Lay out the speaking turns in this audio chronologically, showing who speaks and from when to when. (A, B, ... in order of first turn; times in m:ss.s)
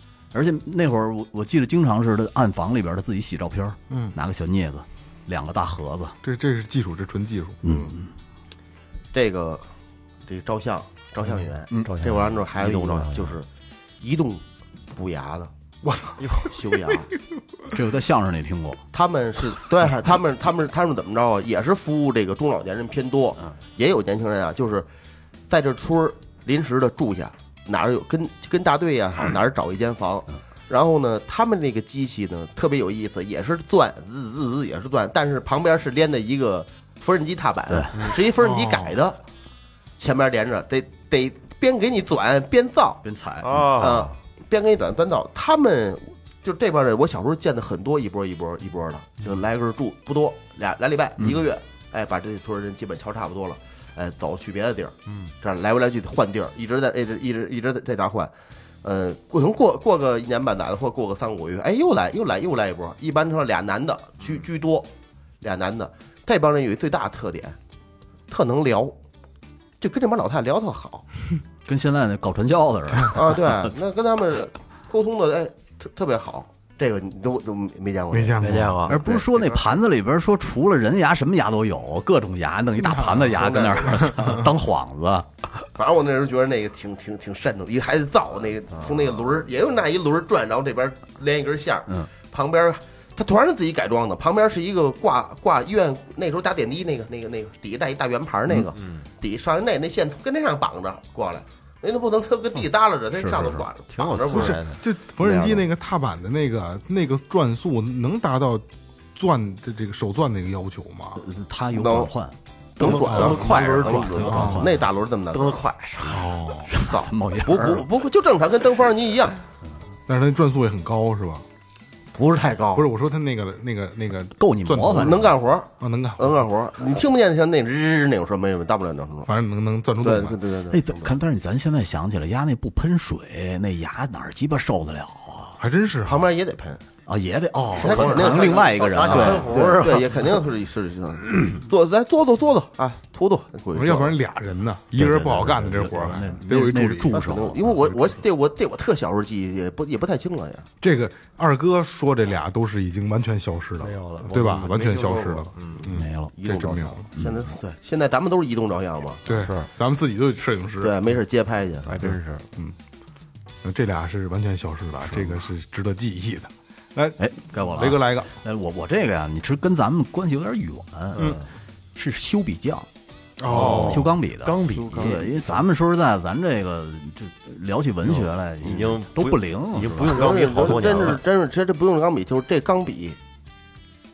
0:00.3-0:06.2 A
0:03.9-0:04.1 B
0:06.2-0:07.6 B
0:07.6-0:08.1 A
0:07.7-0:07.9 C
0:09.1-0:09.6 C
0:10.3-0:13.5 C
0:11.8-0:13.4 D
0:14.0-0:15.5 C
0:15.8-0:16.5 B
0:16.2-0:16.5 D
0:16.4-0:17.1 C
0:17.7-0:18.8 A
0:18.9-0:24.9 C
0:25.5-0:39.2 C
0:37.7-0:38.1 A
0:38.4-0:39.0 B
0:40.0-0:43.0 C
0:43.0-0:43.7 A
0:43.4-0:44.2 D
0:43.8-1:04.9 C
0:55.1-0:55.3 D
1:05.4-1:07.6 C
1:08.3-1:09.0 C
1:09.8-1:11.0 C
1:11.6-1:13.7 A
1:13.1-1:19.6 C
1:18.1-1:18.9 B
1:18.4-1:19.0 D
1:18.9-1:25.5 A
1:22.8-1:24.4 B
1:23.3-1:24.0 C
1:25.8-1:44.6 C
1:38.7-1:39.1 D
1:43.1-1:43.7 A
1:43.9-1:44.8 D
1:44.3-1:51.2 B
1:45.2-1:45.6 C
1:51.2-1:52.4 A
1:51.7-1:52.1 C
1:52.8-1:55.6 C
1:52.8-1:56.3 D
1:53.0-1:54.7 B
1:53.4-1:54.8 A
1:56.0-1:56.7 B
1:56.7-1:57.8 A
1:56.9-1:59.4 C
2:00.1-2:01.4 B
2:02.1-2:02.9 C
2:02.7-2:06.4 B
2:04.4-2:05.3 A
2:04.9-2:09.3 C
2:09.2-2:10.4 B
2:10.0-2:11.1 C
2:10.7-2:15.6 A
2:15.6-2:16.2 B
2:16.0-2:16.8 C
2:17.0-2:19.7 A
2:17.8-2:24.2 C
2:17.8-2:20.4 D
2:23.7-2:27.3 B
2:24.9-2:27.8 A
2:27.1-2:30.7 C
2:30.8-2:37.1 B
2:33.8-2:35.9 D
2:35.9-2:36.3 A
2:36.4-2:39.2 C
2:37.1-2:37.4 A
2:39.2-2:39.7 D
2:39.2-2:41.1 B
2:40.8-2:42.0 C
2:41.8-2:42.5 D
2:42.0-2:42.8 B
2:43.6-2:48.3 B
2:47.2-2:51.4 A
2:51.1-2:51.5 D
2:51.9-2:52.9 A
2:53.4-2:54.1 B
2:53.4-2:55.6 D
2:53.5-3:01.2 A
2:58.0-3:01.2 D
3:00.0-3:03.2 C